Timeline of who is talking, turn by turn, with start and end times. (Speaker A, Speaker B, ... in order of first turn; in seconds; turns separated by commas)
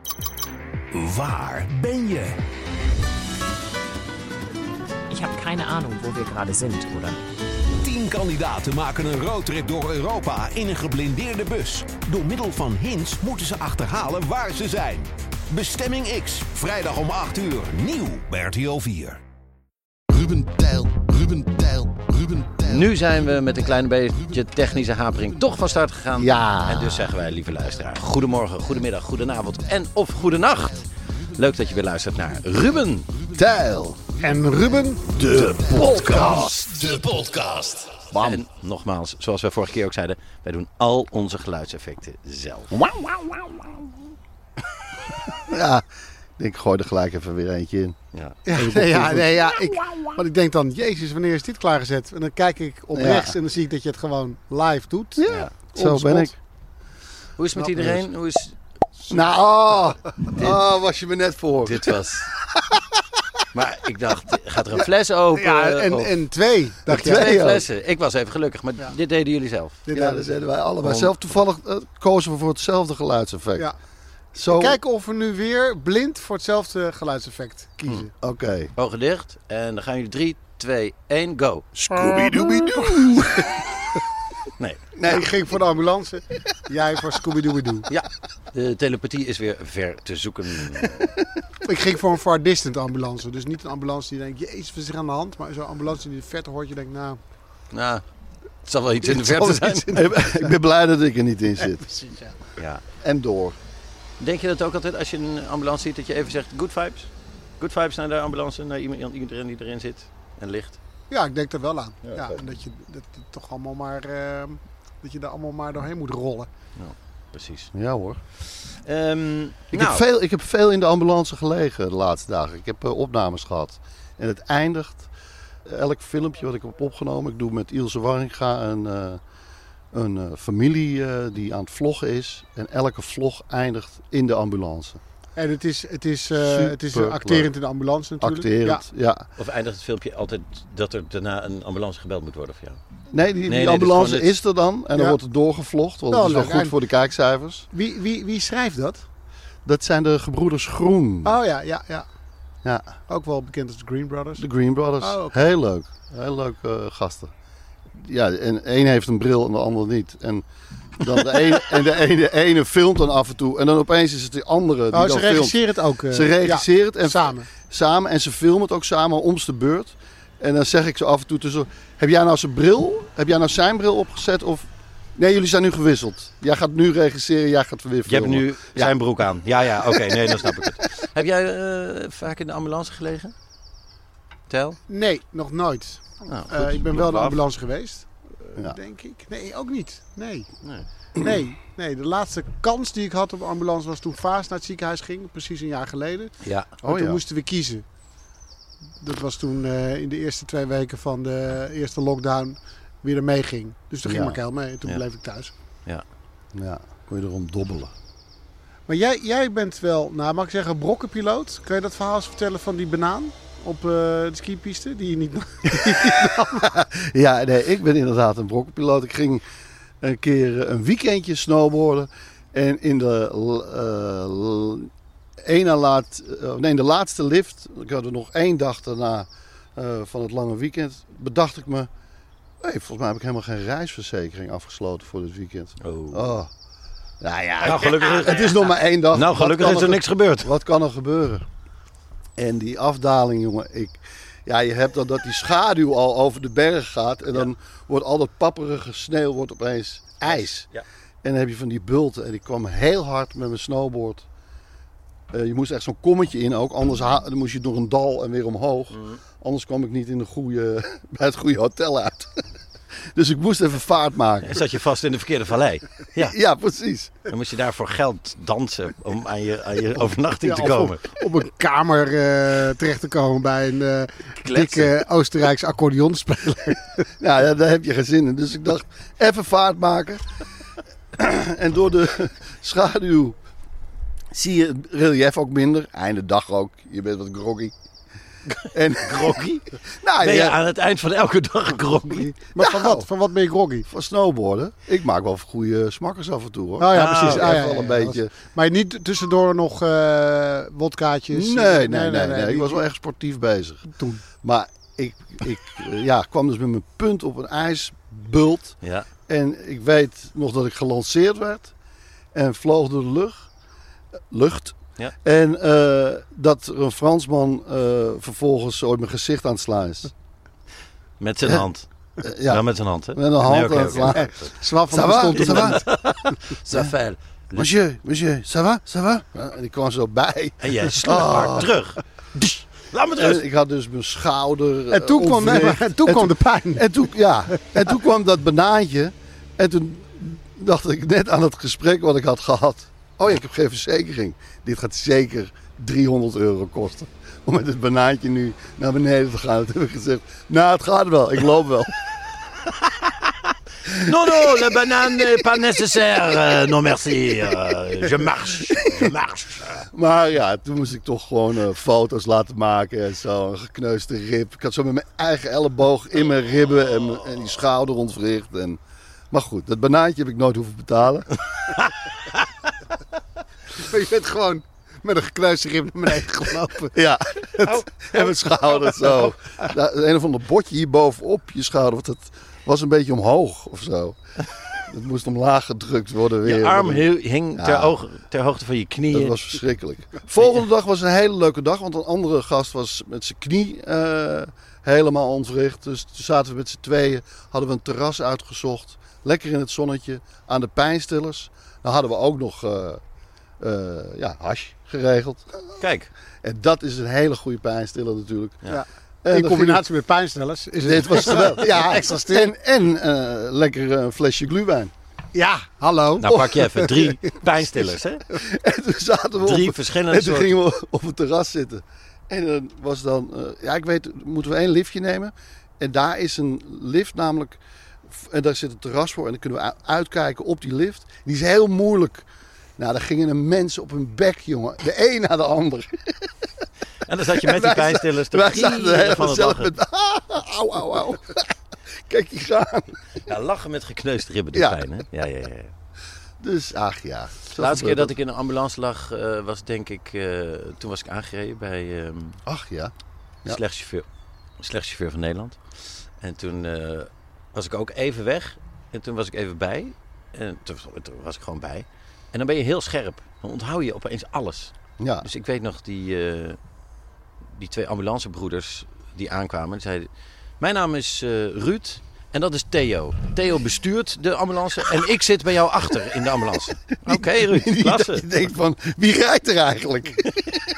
Speaker A: 0.9-2.4, Speaker B: 5.1-7.2, Speaker A: 7.8-19.2, Speaker C: 20.1-22.9, Speaker D: 22.6-33.3, Speaker C: 26.1-27.1, Speaker C: 33.3-34.0, Speaker E: 34.2-35.1, Speaker C: 35.1-37.2, Speaker D: 35.3-36.9, Speaker C: 37.9-38.4, Speaker D: 38.2-42.7, Speaker C: 42.7-43.6, Speaker C: 45.3-45.9, Speaker C: 46.4-50.1, Speaker D: 48.1-48.4, Speaker E: 48.5-56.3, Speaker C: 52.9-53.4, Speaker C: 55.2-56.3, Speaker D: 55.3-55.5, Speaker D: 57.4-58.5, Speaker E: 57.6-57.9, Speaker E: 59.1-59.3, Speaker C: 59.1-61.9, Speaker D: 61.6-62.3, Speaker D: 63.5-66.3, Speaker E: 64.7-67.2, Speaker D: 66.9-69.8, Speaker C: 66.9-67.7, Speaker E: 69.9-70.3, Speaker C: 69.9-73.7, Speaker D: 70.8-71.1, Speaker C: 74.3-74.8, Speaker E: 74.5-78.1, Speaker C: 78.2-78.7, Speaker D: 78.7-81.7, Speaker E: 81.8-83.0, Speaker C: 81.9-83.5, Speaker C: 85.0-85.5, Speaker E: 85.0-87.9, Speaker D: 87.9-91.1, Speaker E: 91.6-97.2, Speaker D: 97.7-98.0, Speaker D: 98.6-100.0, Speaker E: 99.0-100.4, Speaker C: 99.9-101.8, Speaker E: 101.6-102.4, Speaker D: 102.6-102.8, Speaker C: 103.0-103.6, Speaker D: 104.2-110.8, Speaker E: 111.1-116.5, Speaker D: 116.8-117.7, Speaker C: 117.7-118.2, Speaker D: 118.4-120.0, Speaker C: 119.7-125.1, Speaker C: 125.7-129.2, Speaker C: 129.9-135.0, Speaker E: 135.3-138.8, Speaker C: 136.4-137.5, Speaker C: 138.2-139.2, Speaker D: 139.4-142.8, Speaker C: 143.1-147.7, Speaker D: 143.5-144.3, Speaker E: 146.1-146.7, Speaker E: 147.7-149.0, Speaker C: 149.6-151.3, Speaker E: 151.2-152.1, Speaker C: 152.6-152.9, Speaker E: 153.1-154.4, Speaker C: 154.4-157.3, Speaker E: 155.0-155.4, Speaker C: 157.9-160.4, Speaker C: 161.0-178.9, Speaker E: 164.9-167.5, Speaker D: 178.1-183.3, Speaker C: 179.9-180.3, Speaker D: 184.5-184.8, Speaker E: 184.9-190.5, Speaker D: 186.3-186.5, Speaker E: 191.2-197.8, Speaker D: 196.4-196.7, Speaker C: 196.8-197.2, Speaker E: 199.0-205.5, Speaker C: 204.0-204.4, Speaker C: 206.5-207.9, Speaker E: 208.9-216.7, Speaker C: 216.6-219.4, Speaker C: 220.0-224.9, Speaker C: 225.4-231.9, Speaker C: 232.6-236.5, Speaker D: 235.8-236.3, Speaker C: 237.2-241.4, Speaker D: 237.6-240.5, Speaker C: 242.4-250.5, Speaker E: 250.2-250.6, Speaker C: 251.2-254.2, Speaker C: 255.3-262.3, Speaker D: 258.9-259.2, Speaker C: 263.1-264.6, Speaker D: 264.4-266.4, Speaker C: 266.1-267.1, Speaker D: 267.3-271.0, Speaker E: 270.4-277.0, Speaker D: 274.4-274.9, Speaker C: 277.2-280.2, Speaker C: 281.1-283.4, Speaker C: 284.3-287.7, Speaker D: 288.6-289.6, Speaker C: 288.7-290.6, Speaker D: 290.2-292.5, Speaker E: 292.1-293.9, Speaker C: 292.6-293.1, Speaker C: 293.9-298.3, Speaker E: 296.8-302.9, Speaker D: 296.9-297.6, Speaker C: 301.3-311.7, Speaker E: 303.9-304.2, Speaker D: 308.8-309.1, Speaker C: 312.3-313.5, Speaker C: 314.3-320.1, Speaker D: 321.2-321.9, Speaker C: 322.2-324.3, Speaker D: 322.4-324.5, Speaker E: 324.0-326.3, Speaker C: 324.9-325.8, Speaker D: 325.3-327.7, Speaker C: 327.5-331.7, Speaker D: 330.6-333.4, Speaker C: 333.1-351.9, Speaker E: 334.9-336.9, Speaker D: 352.9-353.3, Speaker D: 353.9-359.9, Speaker C: 357.5-359.1, Speaker C: 359.9-368.8, Speaker D: 367.1-367.4, Speaker C: 369.3-371.3, Speaker E: 373.7-377.0, Speaker C: 376.9-377.4, Speaker E: 377.6-379.3, Speaker D: 377.6-378.1, Speaker C: 378.1-384.2, Speaker C: 384.9-387.9, Speaker D: 386.4-389.5, Speaker C: 389.1-403.0, Speaker D: 390.4-390.6, Speaker C: 403.6-405.5, Speaker D: 405.8-406.1, Speaker C: 406.4-408.6, Speaker E: 408.7-412.5, Speaker C: 409.2-409.8, Speaker C: 410.8-414.9, Speaker E: 415.3-417.4, Speaker D: 416.2-418.2, Speaker C: 416.2-416.6, Speaker C: 418.4-432.3, Speaker D: 419.4-420.6, Speaker C: 432.8-436.3, Speaker D: 437.0-439.7, Speaker C: 437.3-441.5, Speaker C: 442.1-442.9, Speaker D: 443.3-445.7, Speaker C: 444.5-444.8, Speaker C: 446.4-448.1, Speaker D: 447.5-452.4, Speaker C: 452.4-452.9, Speaker D: 453.4-454.1, Speaker D: 454.6-455.6, Speaker D: 456.2-466.6, Speaker C: 465.0-465.2, Speaker D: 467.6-470.1, Speaker D: 470.6-478.3, Speaker C: 477.1-480.2